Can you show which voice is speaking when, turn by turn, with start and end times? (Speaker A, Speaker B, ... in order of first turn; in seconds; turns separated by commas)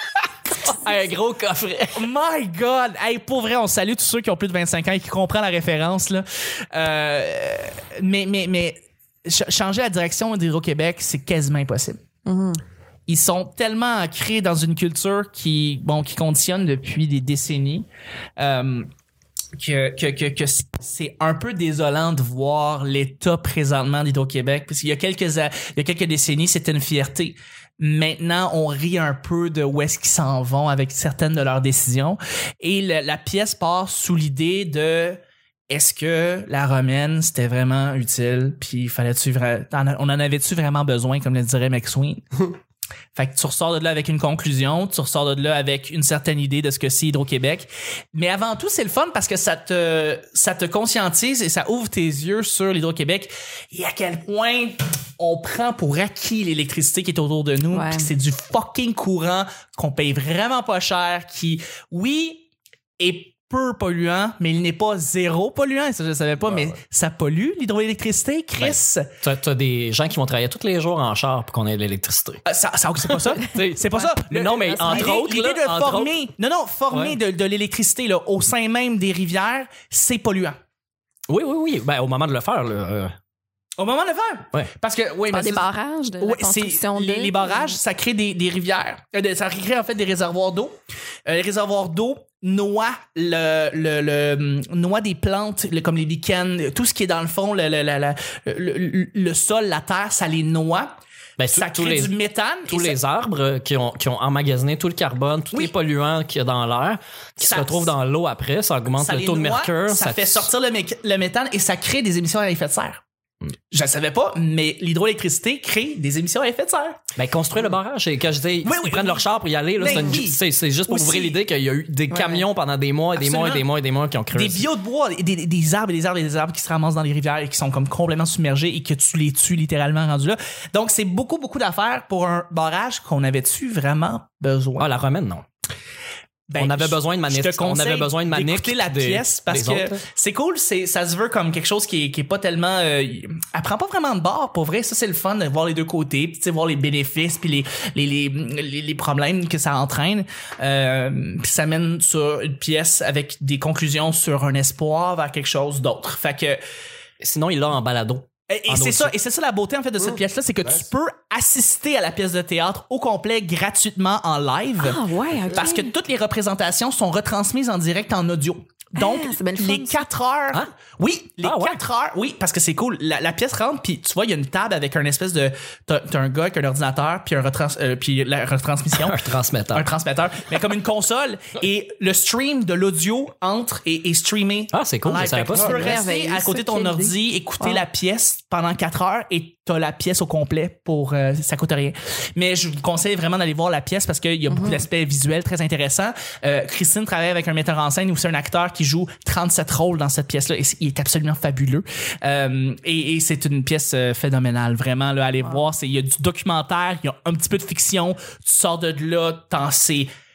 Speaker A: 0.5-2.1, Speaker B: 1.9-12.0, Speaker C: 12.2-12.6, Speaker B: 13.1-17.9, Speaker B: 18.4-18.9, Speaker B: 19.6-42.5, Speaker B: 43.1-62.5, Speaker C: 57.7-58.1, Speaker B: 63.0-69.1, Speaker A: 68.6-72.4, Speaker B: 72.5-80.6, Speaker A: 73.0-76.2, Speaker C: 74.6-75.1, Speaker A: 76.9-77.2, Speaker A: 81.3-83.1, Speaker B: 83.8-85.7, Speaker C: 85.3-87.8, Speaker B: 86.2-90.7, Speaker B: 91.2-100.9, Speaker A: 101.4-102.1, Speaker B: 101.5-103.0, Speaker A: 102.7-110.5, Speaker B: 107.4-107.9, Speaker B: 109.0-113.0, Speaker B: 113.7-117.0, Speaker A: 117.2-124.7, Speaker B: 118.6-119.2, Speaker B: 119.8-121.4, Speaker C: 122.1-122.4, Speaker B: 123.2-123.6, Speaker B: 124.3-134.9, Speaker A: 134.8-135.4, Speaker B: 136.5-156.6, Speaker A: 136.6-140.0, Speaker A: 157.2-159.1, Speaker B: 158.5-165.0, Speaker C: 164.8-165.9, Speaker B: 165.5-210.1, Speaker C: 168.9-169.9, Speaker A: 171.4-171.8, Speaker A: 178.9-179.9, Speaker A: 184.7-186.0, Speaker C: 185.6-187.8, Speaker C: 194.5-194.8